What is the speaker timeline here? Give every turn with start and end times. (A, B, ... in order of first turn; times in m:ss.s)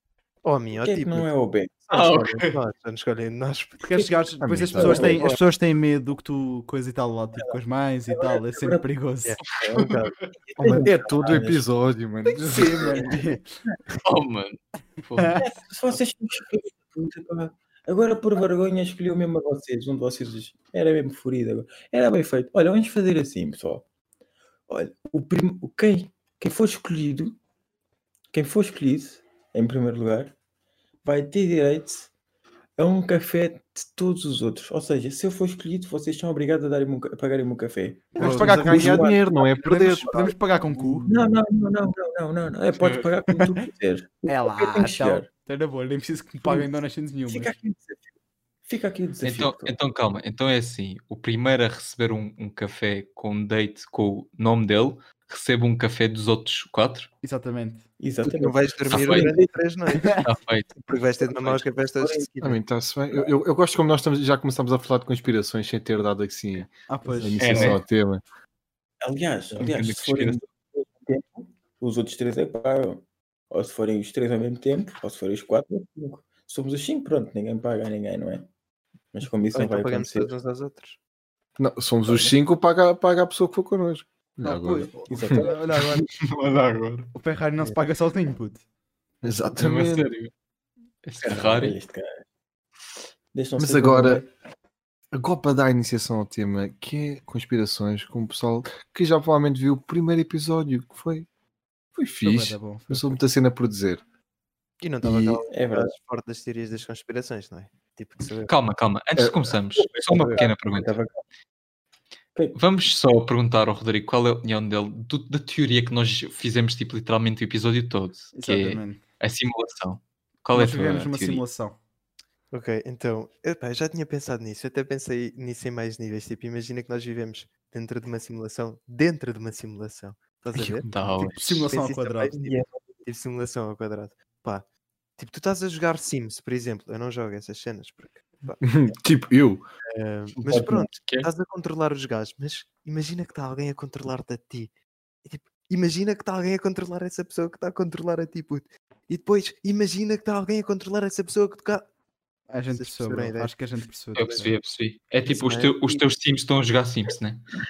0:00.4-0:01.3 A
0:00.7-0:01.9 B
0:01.9-0:02.6 C
0:01.9-0:04.1 A
0:03.8-0:09.4 D
0:04.4-0:05.2 E
0:04.8-0:05.2 B
0:04.8-0:05.4 A
0:08.1-0:08.8 B
0:09.2-0:10.8 A
0:09.6-0:10.3 C
0:10.4-0:11.6 B
0:10.6-0:12.9 E
0:12.3-0:13.5 D
0:14.0-0:16.0 C
0:15.2-0:15.4 D
0:15.4-0:23.9 B
0:24.7-0:27.4 B
0:28.3-0:30.4 B
0:31.0-0:32.1 B
0:32.8-0:45.3 B
0:38.2-0:41.1 D
0:38.2-0:40.3 E
0:42.7-0:43.1 C
0:44.3-0:47.6 D
0:46.4-0:46.8 B
0:47.3-0:48.1 B
0:48.7-0:49.8 B
0:49.2-0:57.1 C
0:57.2-0:57.9 D
0:58.0-0:59.5 B
0:58.2-1:00.2 A
0:58.9-0:59.4 C
0:59.9-1:00.2 D
1:00.0-1:00.8 C
1:00.8-1:02.6 A
1:01.2-1:02.3 B
1:02.4-1:08.2 E
1:06.9-1:07.8 D
1:07.4-1:07.8 C
1:09.0-1:18.5 B
1:09.6-1:10.4 C
1:19.1-1:20.4 B
1:19.5-1:21.0 A
1:21.6-1:25.5 E
1:22.1-1:22.4 B
1:24.4-1:26.1 D
1:25.1-1:25.6 B
1:25.8-1:27.1 C
1:27.2-1:28.6 D
1:29.2-1:30.1 E
1:29.4-1:30.3 C
1:31.0-1:31.8 C
1:31.2-1:32.1 B
1:33.3-1:34.3 B
1:33.6-1:34.2 E
1:35.1-1:41.3 E
1:42.0-1:44.0 E
1:42.2-1:43.1 D
1:44.8-1:48.5 A
1:45.0-1:45.9 B
1:48.5-1:51.0 C
1:49.2-1:49.5 E
1:49.8-1:51.2 B
1:50.2-1:50.4 A
1:52.5-2:01.4 C
1:58.4-1:59.0 D
2:00.5-2:01.8 D
2:02.5-2:14.6 A
2:10.6-2:10.8 E
2:10.8-2:11.7 C
2:11.3-2:12.3 D
2:12.3-2:13.0 B
2:15.2-2:18.9 A
2:18.6-2:19.6 E
2:19.9-2:24.7 A
2:20.5-2:20.9 B
2:20.9-2:21.3 C
2:25.2-2:31.9 A
2:32.5-2:34.5 D
2:32.7-2:33.5 A
2:34.2-2:37.6 C
2:35.3-2:35.9 A